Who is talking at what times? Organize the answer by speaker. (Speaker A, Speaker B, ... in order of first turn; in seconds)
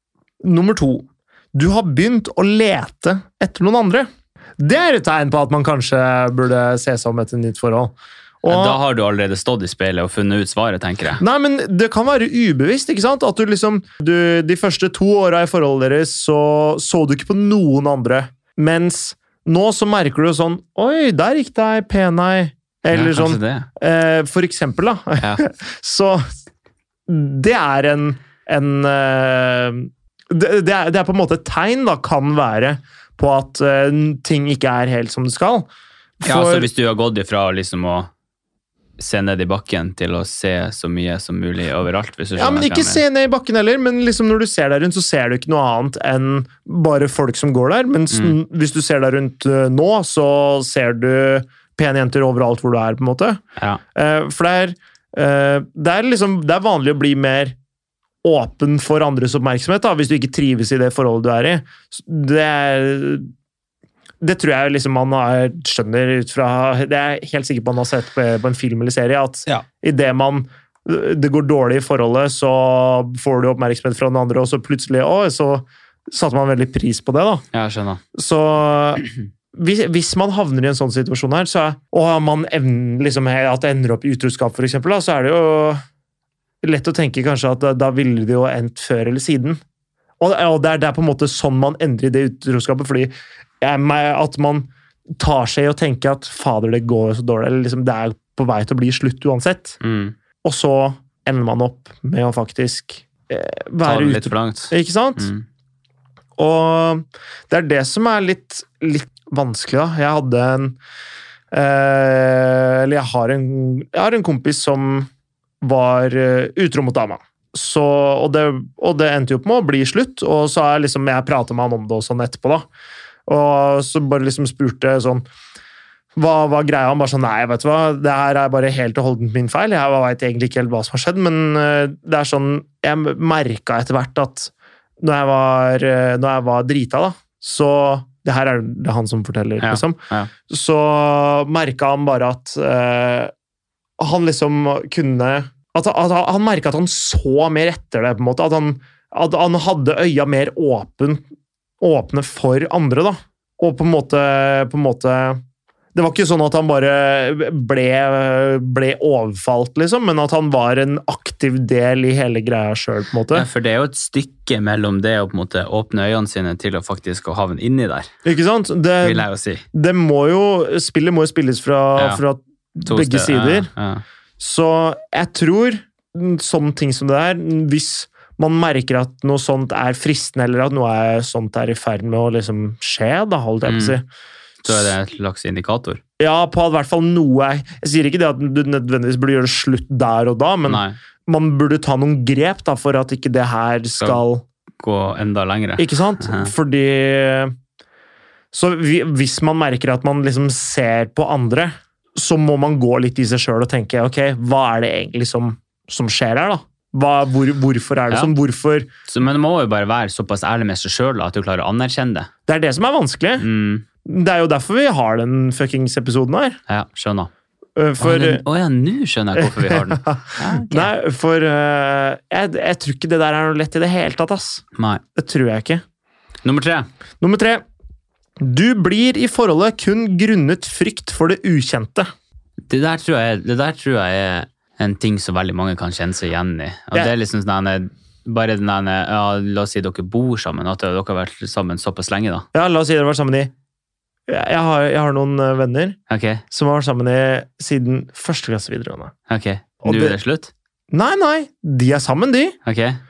Speaker A: 0.4-8.8, 11.2-26.2, 27.1-35.7, 36.2-36.7, 42.4-53.4, 54.0-57.6, 58.2-63.3, 64.2-77.5, 78.1-85.8, 86.6-89.6, 90.2-99.8, 100.4-105.3, 106.4-110.8, 111.5-115.1, 115.6-122.7, 123.3-125.2, 126.2-143.3, 144.0-151.2, 151.8-155.4, 155.9-163.5, 168.2-173.7, 174.4-184.1, 184.7-184.9, 186.2-194.4, 195.8-197.5, 198.5-208.9, 212.5-213.4, 214.0-216.6, 217.8-218.4, 219.4-224.6, 225.2-225.8, 227.2-227.6, 228.4-232.1, 242.5-243.5, 244.3-246.0, 246.5-249.1, 249.8-250.2, 250.9-252.6
Speaker B: 8.5-11.2, 22.9-23.7, 25.2-25.4, 36.2-38.1, 39.0-43.0, 48.1-48.4, 77.5-78.0, 99.8-100.2, 103.8-105.4, 139.6-140.3, 163.3-168.1, 169.0-169.6, 172.0-172.2, 172.8-174.0, 183.7-184.0, 184.6-186.0, 190.7-191.0, 194.8-196.5, 209.1-212.3, 213.4-213.9, 216.7-217.3, 218.0-220.9, 224.8-225.0, 226.4-226.9, 232.7-242.5, 246.1-246.4, 249.3-250.5, 252.7-253.0